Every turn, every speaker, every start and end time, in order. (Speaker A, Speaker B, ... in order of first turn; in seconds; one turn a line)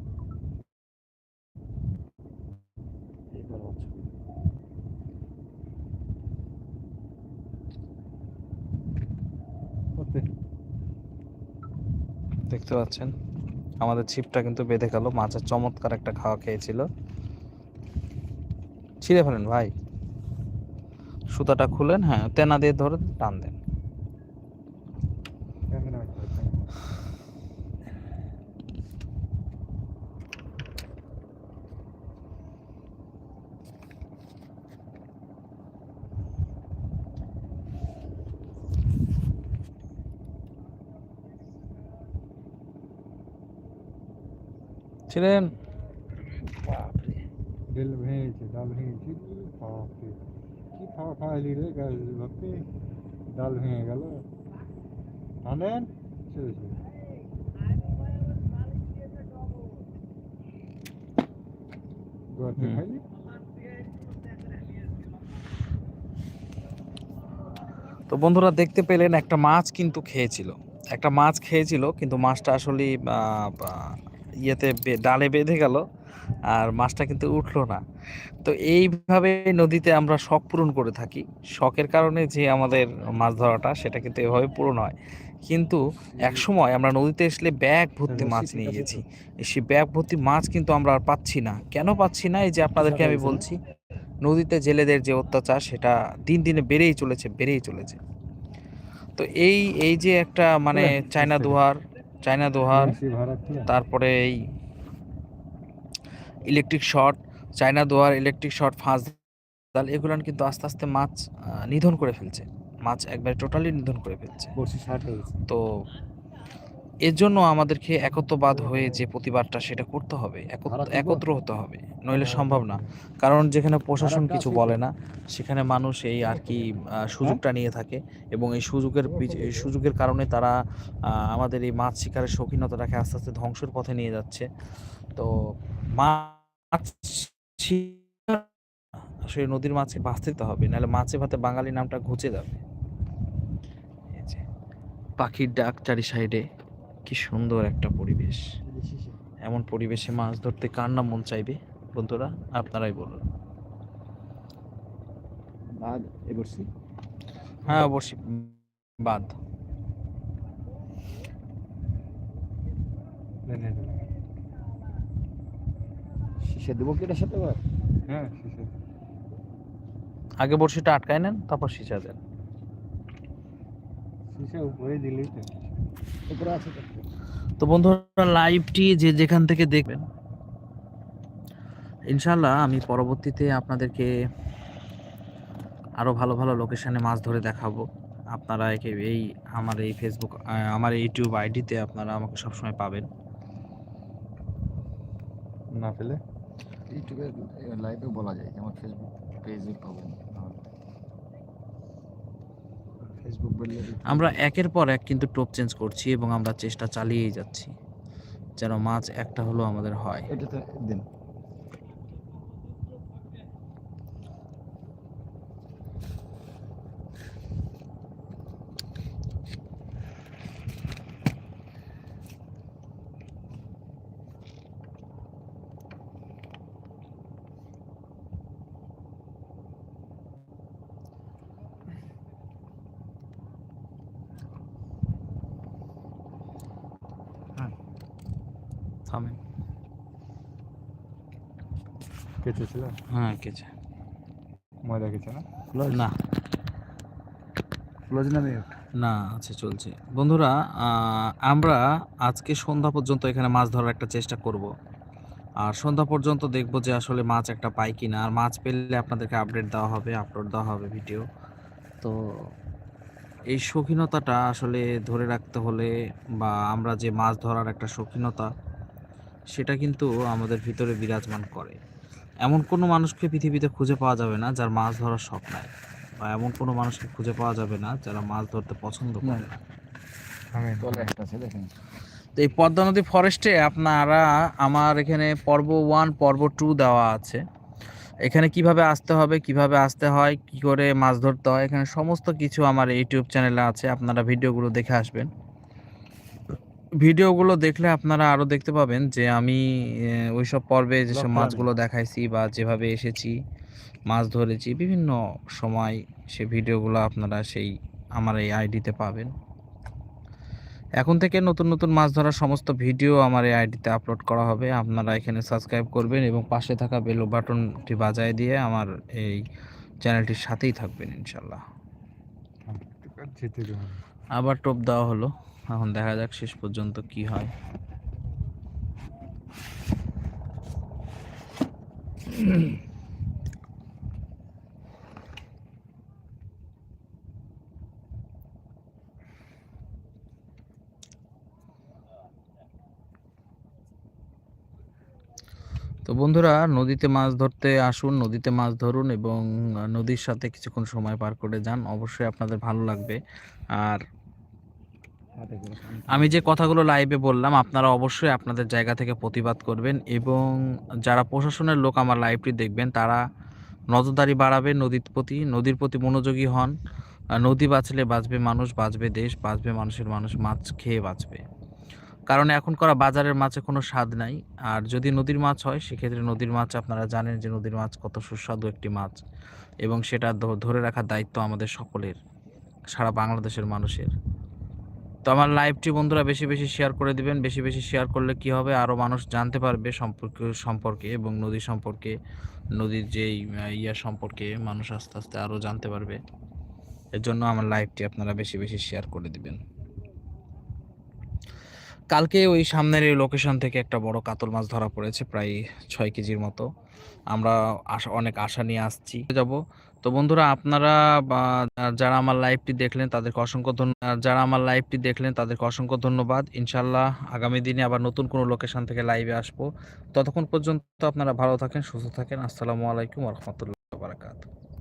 Speaker A: 3.3-4.2
Speaker B: 10.0-10.3
Speaker C: 12.5-13.1
Speaker C: 13.8-16.9
Speaker C: 19.0-19.7
Speaker C: 21.3-23.6
Speaker B: 25.7-26.7
Speaker C: 45.1-45.5
Speaker C: 46.5-47.2
Speaker B: 47.7-50.2
Speaker B: 50.8-52.7
Speaker B: 53.3-54.2
Speaker B: 55.4-56.8
Speaker B: 62.3-63.0
Speaker C: 62.6-62.8
Speaker C: 68.1-75.8
Speaker C: 76.4-77.8
Speaker C: 78.4-93.6
Speaker A: 86.2-86.4
Speaker B: 88.1-88.9
Speaker A: 88.4-89.0
Speaker A: 92.8-93.4
Speaker C: 94.2-98.0
Speaker C: 99.2-103.0
Speaker B: 100.7-101.6
Speaker B: 102.7-103.7
Speaker C: 103.7-104.5
Speaker C: 106.5-109.2
Speaker C: 109.7-114.5
Speaker A: 114.6-115.4
Speaker C: 117.0-130.6
Speaker A: 120.7-121.2
Speaker B: 122.2-122.8
Speaker A: 124.0-124.8
Speaker A: 129.1-129.7
Speaker C: 131.1-134.5
Speaker C: 135.9-138.4
Speaker C: 139.3-142.6
Speaker C: 144.1-144.4
Speaker C: 145.2-146.4
Speaker C: 147.1-148.4
Speaker A: 148.7-149.2
Speaker C: 149.4-153.2
Speaker A: 155.7-156.7
Speaker C: 157.7-159.3
Speaker B: 163.5-164.0
Speaker A: 166.4-167.6
Speaker B: 168.1-168.7
Speaker C: 170.4-172.2
Speaker B: 174.3-175.6
Speaker A: 176.3-177.1
Speaker C: 177.6-180.0
Speaker C: 182.1-184.1
Speaker C: 186.0-193.1
Speaker B: 195.8-196.2
Speaker A: 196.9-200.6
Speaker A: 203.1-204.4
Speaker C: 204.1-207.7
Speaker C: 208.6-210.3
Speaker A: 210.3-211.1
Speaker C: 239.1-239.4
Speaker B: 242.4-243.0
Speaker C: 243.1-243.7
Speaker B: 244.9-245.4
Speaker A: 245.7-246.1
Speaker C: 245.9-246.2
Speaker A: 248.1-248.7
Speaker C: 249.0-254.7
Speaker C: 255.6-261.3
Speaker C: 263.5-268.5
Speaker C: 269.5-271.8
Speaker C: 272.4-279.6
Speaker A: 279.2-279.5
Speaker B: 280.5-281.1
Speaker A: 280.8-281.7
Speaker C: 282.4-287.4
Speaker C: 288.2-295.3
Speaker C: 297.0-303.3
Speaker A: 301.1-301.7
Speaker C: 304.1-309.3
Speaker C: 311.0-319.4
Speaker C: 320.0-321.6
Speaker B: 322.7-324.0
Speaker C: 324.4-327.5
Speaker C: 346.1-353.2
Speaker C: 353.8-354.0
Speaker A: 355.4-356.6
Speaker C: 356.1-363.2
Speaker C: 363.9-366.8
Speaker C: 367.4-371.4
Speaker C: 372.3-379.2
Speaker C: 379.8-382.2
Speaker C: 382.9-384.1
Speaker C: 385.3-392.1
Speaker C: 392.8-396.2
Speaker C: 397.2-399.6
Speaker C: 402.1-406.6
Speaker C: 407.3-424.5